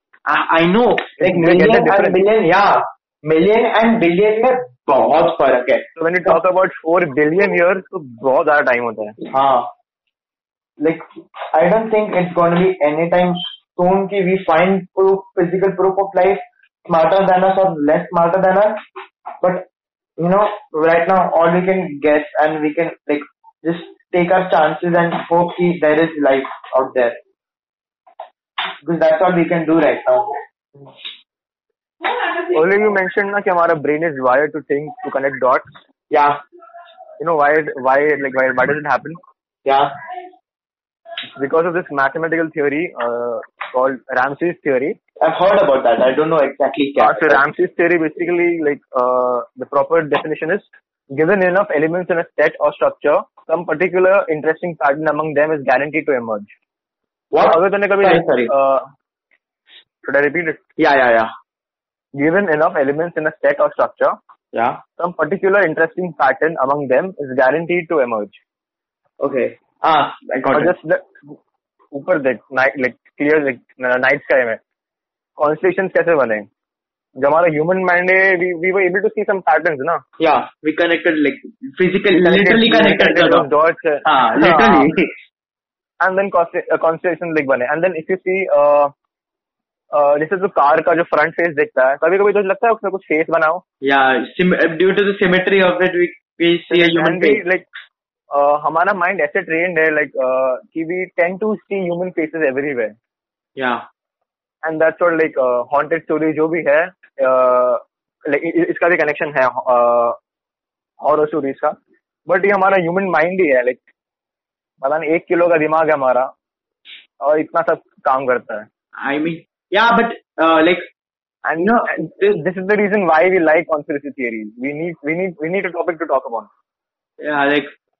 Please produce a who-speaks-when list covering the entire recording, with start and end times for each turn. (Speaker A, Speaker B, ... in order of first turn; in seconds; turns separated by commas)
Speaker A: 0.2-6.3, Speaker B: 1.2-2.2, Speaker B: 6.0-9.2, Speaker A: 9.3-9.7, Speaker A: 10.8-18.8, Speaker A: 19.4-19.7, Speaker A: 20.2-27.2, Speaker A: 28.8-30.3, Speaker B: 32.5-35.6, Speaker A: 36.1-36.4, Speaker B: 37.2-39.2, Speaker A: 39.6-39.9, Speaker B: 41.4-45.0, Speaker A: 45.2-47.4, Speaker B: 47.0-56.5, Speaker A: 57.3-58.5, Speaker B: 57.4-58.9, Speaker B: 60.0-60.6, Speaker A: 60.8-61.3, Speaker B: 62.1-64.2, Speaker A: 64.5-64.8, Speaker B: 65.0-68.4, Speaker A: 69.2-70.7, Speaker B: 70.5-71.3, Speaker B: 71.9-74.6, Speaker B: 75.4-76.5, Speaker B: 77.2-80.0, Speaker A: 80.2-83.5, Speaker B: 82.2-84.9, Speaker A: 84.0-85.1, Speaker B: 86.0-88.9, Speaker B: 89.9-93.6, Speaker A: 93.8-97.4, Speaker B: 96.7-97.7, Speaker B: 98.3-103.0, Speaker A: 103.6-103.8, Speaker B: 104.6-110.2, Speaker B: 111.0-111.8, Speaker B: 112.3-113.8, Speaker B: 114.8-116.3, Speaker B: 117.2-118.7, Speaker A: 119.0-120.9, Speaker B: 121.4-126.5, Speaker A: 121.6-122.4, Speaker A: 127.2-127.7